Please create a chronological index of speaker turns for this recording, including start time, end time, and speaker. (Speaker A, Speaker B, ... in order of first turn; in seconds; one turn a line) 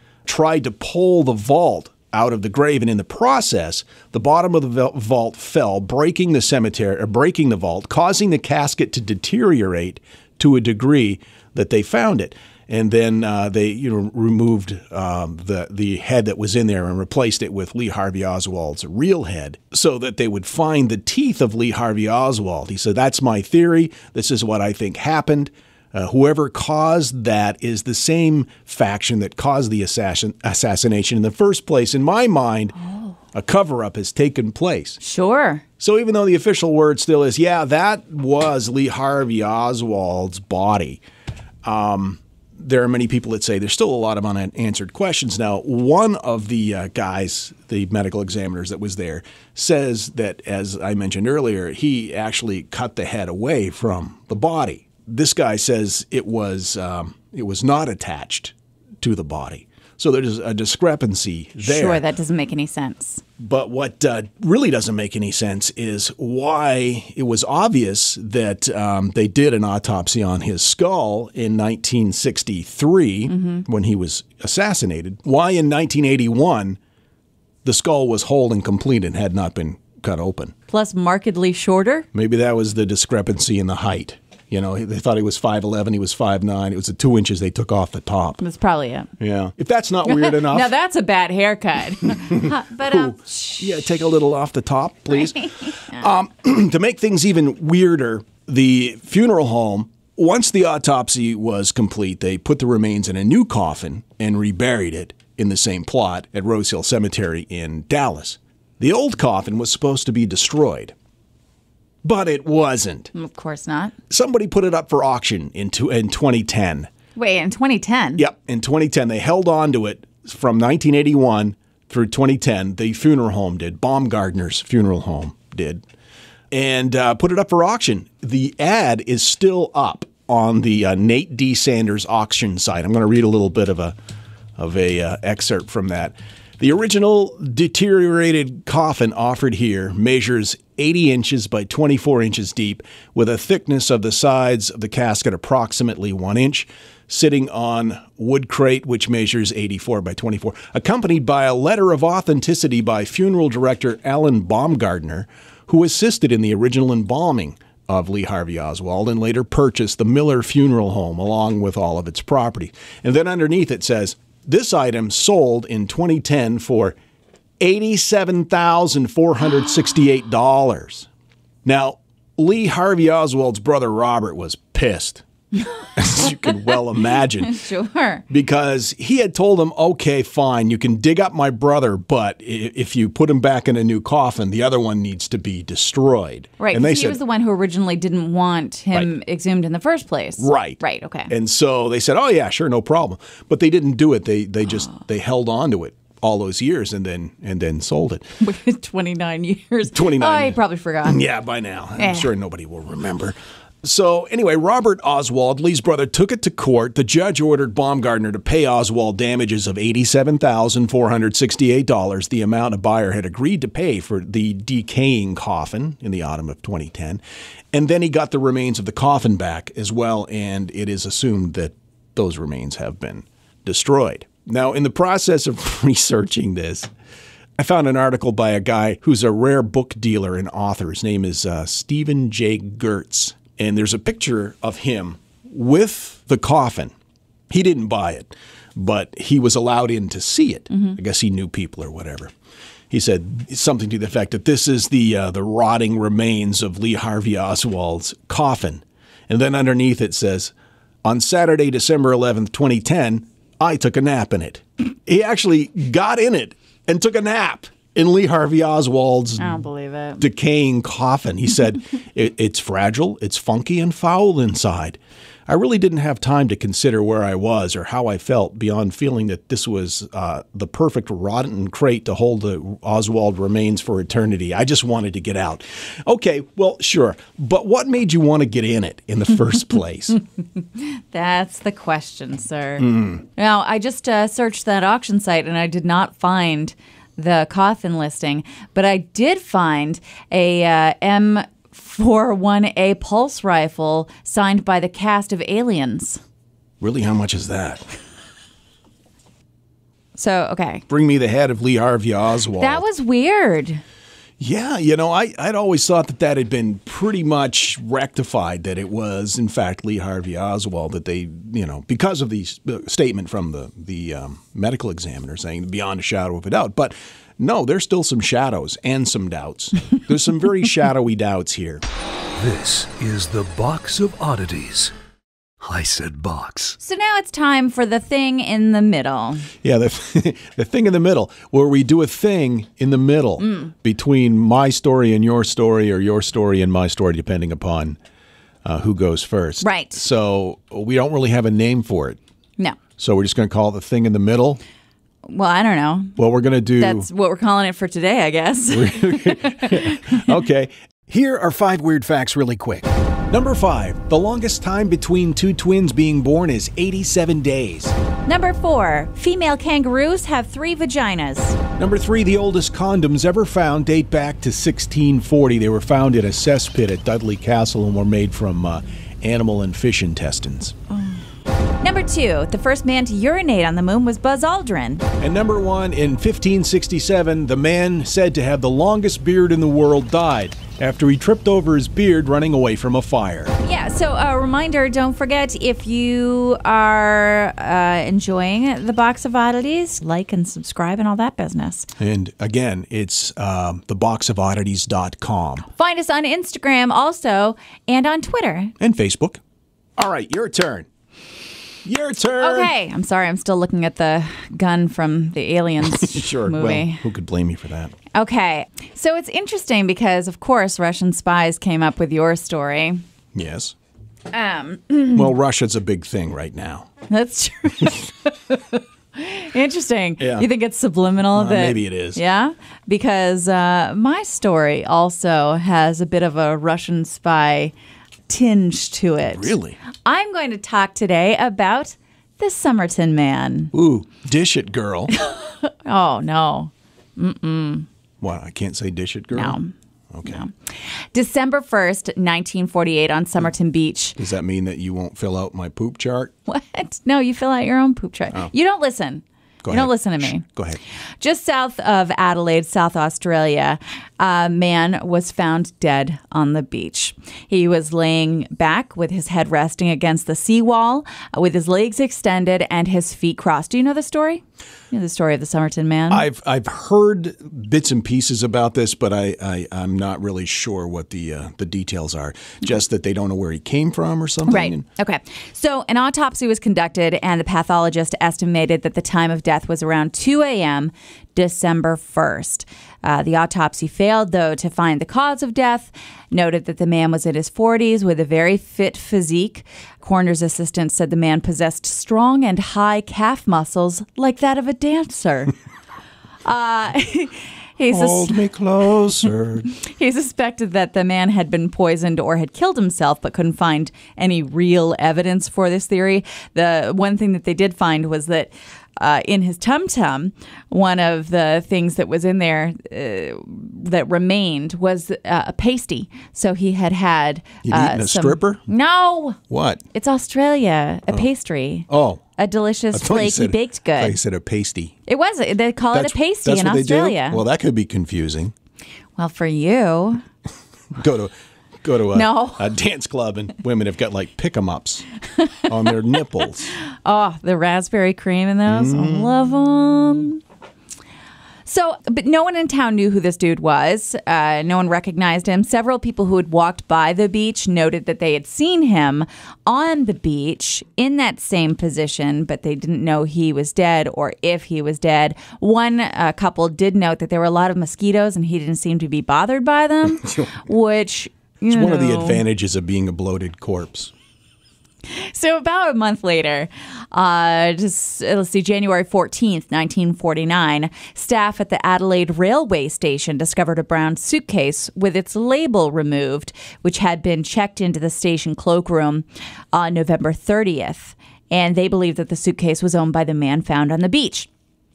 Speaker A: 0.2-32.7
Speaker B: 32.8-33.1
Speaker A: 33.3-35.0
Speaker B: 35.0-35.6
Speaker A: 35.8-41.0
Speaker A: 41.6-62.0
Speaker B: 61.6-63.2
Speaker A: 63.4-76.8
Speaker B: 73.3-73.6
Speaker A: 77.6-80.5
Speaker B: 80.7-82.1
Speaker A: 82.1-88.4
Speaker B: 88.4-89.1
Speaker A: 89.2-90.7
Speaker B: 90.0-93.7
Speaker A: 92.1-110.9
Speaker A: 112.0-113.1
Speaker B: 113.1-113.9
Speaker A: 114.1-116.9
Speaker B: 117.2-118.2
Speaker A: 118.2-125.8
Speaker A: 126.5-133.9
Speaker A: 134.6-166.9
Speaker A: 167.6-171.1
Speaker A: 171.6-175.2
Speaker B: 175.6-176.5
Speaker A: 175.9-177.6
Speaker B: 177.4-178.2
Speaker A: 178.3-187.2
Speaker B: 186.6-191.3
Speaker A: 190.4-198.2
Speaker B: 198.4-201.2
Speaker A: 199.9-217.2
Speaker B: 202.0-202.3
Speaker A: 217.7-226.9
Speaker A: 227.6-236.9
Speaker A: 237.5-242.3
Speaker B: 240.7-241.0
Speaker A: 242.9-250.5
Speaker A: 251.0-259.6
Speaker B: 259.4-260.2
Speaker A: 260.2-280.2
Speaker B: 280.7-296.2
Speaker A: 282.8-283.2
Speaker A: 296.8-297.9
Speaker B: 300.1-300.8
Speaker A: 300.9-302.8
Speaker B: 302.6-303.8
Speaker A: 304.4-321.8
Speaker C: 322.4-324.9
Speaker C: 325.6-326.8
Speaker B: 326.8-329.5
Speaker A: 329.6-338.0
Speaker B: 333.4-333.7
Speaker A: 338.6-342.2
Speaker B: 339.6-340.0
Speaker A: 343.0-344.6
Speaker B: 345.2-346.2
Speaker A: 346.2-347.1
Speaker B: 346.8-350.3
Speaker A: 348.7-357.9
Speaker B: 358.3-361.6
Speaker A: 361.8-370.8
Speaker B: 370.9-371.2
Speaker B: 371.8-375.0
Speaker A: 375.2-383.5
Speaker B: 383.6-391.9
Speaker A: 392.0-395.7
Speaker B: 395.7-398.7
Speaker A: 398.8-399.4
Speaker A: 400.0-400.9
Speaker A: 401.8-402.7
Speaker B: 402.4-407.0
Speaker A: 405.8-407.9
Speaker B: 408.1-413.0
Speaker A: 413.3-413.7
Speaker B: 414.3-415.3
Speaker A: 415.1-416.9
Speaker B: 417.1-427.7
Speaker A: 420.2-420.5
Speaker A: 421.3-422.2
Speaker B: 428.3-433.7
Speaker A: 429.3-429.8
Speaker A: 433.7-435.1
Speaker B: 435.1-437.9
Speaker A: 438.2-439.6
Speaker B: 439.3-439.7
Speaker A: 440.1-440.4
Speaker B: 440.2-444.2
Speaker A: 444.2-446.3
Speaker B: 446.5-450.4
Speaker A: 449.6-450.8
Speaker B: 451.2-466.2
Speaker A: 466.1-474.8
Speaker B: 474.4-495.5
Speaker B: 496.4-498.4
Speaker A: 497.9-499.7
Speaker B: 499.7-519.4
Speaker A: 517.6-518.7
Speaker A: 519.5-519.8
Speaker B: 519.9-524.2
Speaker A: 521.9-522.2
Speaker A: 522.9-525.0
Speaker B: 525.1-527.4
Speaker A: 525.9-528.5
Speaker B: 529.2-530.2
Speaker A: 530.9-535.0
Speaker B: 532.1-532.7
Speaker A: 535.6-536.7
Speaker B: 536.8-540.4
Speaker A: 538.6-539.3
Speaker B: 541.6-562.4
Speaker A: 561.7-564.1
Speaker B: 565.1-584.5